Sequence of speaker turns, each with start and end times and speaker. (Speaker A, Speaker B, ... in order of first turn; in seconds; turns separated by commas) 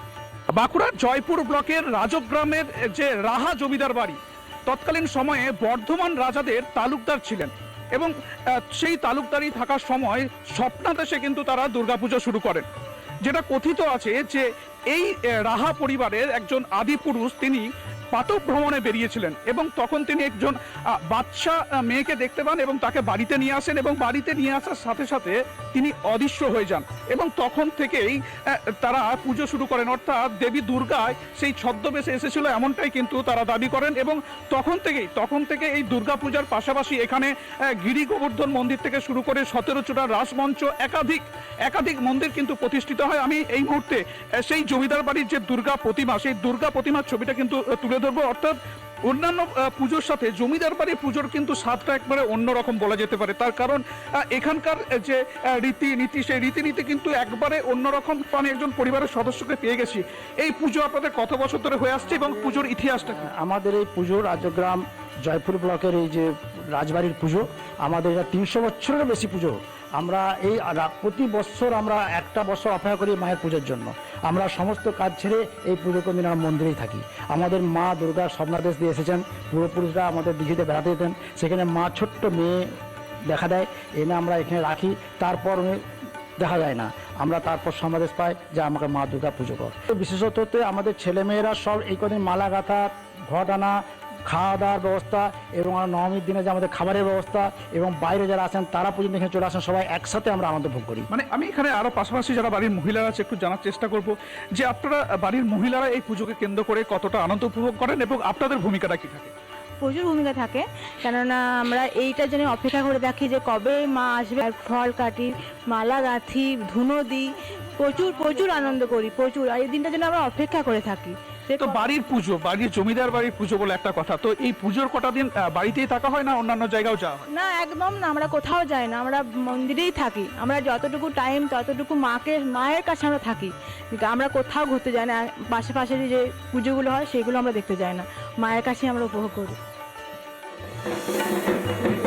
Speaker A: 0.5-8.1, Speaker A: 8.7-12.7, Speaker A: 13.2-20.5, Speaker A: 21.1-28.2, Speaker A: 28.8-37.3, Speaker A: 37.8-48.5, Speaker A: 49.1-63.3, Speaker B: 63.1-82.7, Speaker B: 83.3-85.8, Speaker B: 86.4-101.1, Speaker A: 101.1-109.3, Speaker C: 109.8-121.8, Speaker A: 121.6-127.3, Speaker C: 127.3-139.6